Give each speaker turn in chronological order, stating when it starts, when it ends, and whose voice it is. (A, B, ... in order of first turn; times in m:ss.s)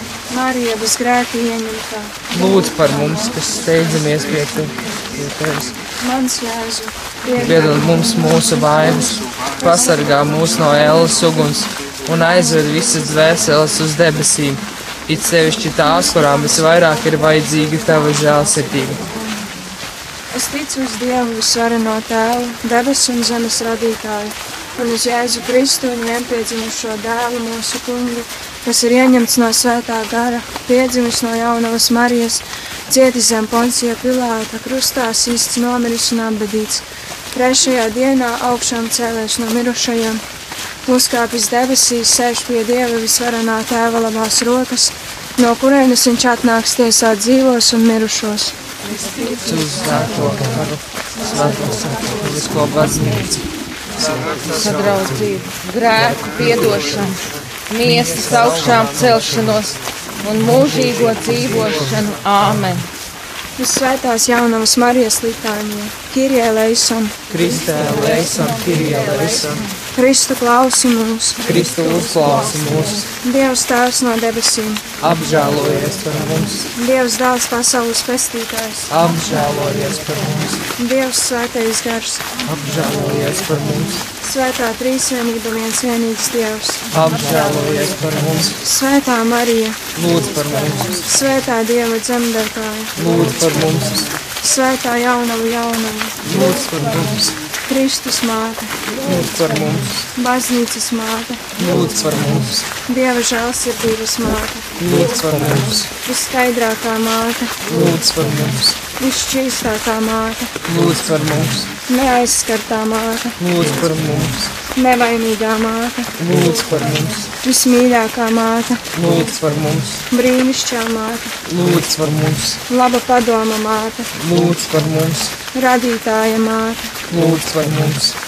0:00.3-0:02.5 A
0:02.3-0:05.8 B
0:06.0-0:10.2 A
0:07.4-0:19.0 B
0:20.3-0:40.2 A
0:40.8-0:48.5 A
0:49.2-0:53.4 B
0:54.0-0:55.2 B
0:54.4-1:02.9 C
0:56.0-0:57.0 B
0:57.8-0:59.4 B
1:00.5-1:01.9 B
1:03.6-1:07.2 A
1:07.3-1:09.6 B
1:09.9-1:11.4 A
1:11.4-1:13.1 B
1:13.2-1:14.9 A
1:15.0-1:16.7 B
1:16.7-1:18.9 A
1:18.9-1:20.6 B
1:20.8-1:22.3 A
1:22.4-1:24.0 B
1:24.2-1:26.8 A
1:26.9-1:28.6 B
1:28.6-1:29.8 A
1:29.9-1:31.0 B
1:31.0-1:32.9 A
1:32.9-1:34.1 B
1:34.4-1:36.2 A
1:36.2-1:37.3 B
1:37.7-1:38.8 A
1:39.0-1:40.0 B
1:40.1-1:41.5 A
1:41.6-1:42.6 B
1:42.8-1:44.7 A
1:44.8-1:45.9 B
1:45.9-1:47.7 A
1:47.7-1:48.7 B
1:48.9-1:50.5 A
1:50.6-1:51.7 B
1:51.8-1:53.4 A
1:53.4-1:54.5 B
1:54.7-1:56.1 A
1:56.2-1:57.3 B
1:57.4-1:58.9 A
1:58.9-2:00.0 B
2:00.1-2:01.4 A
2:01.4-2:02.6 B
2:02.7-2:04.1 A
2:04.1-2:05.3 B
2:05.5-2:07.0 A
2:07.1-2:08.1 B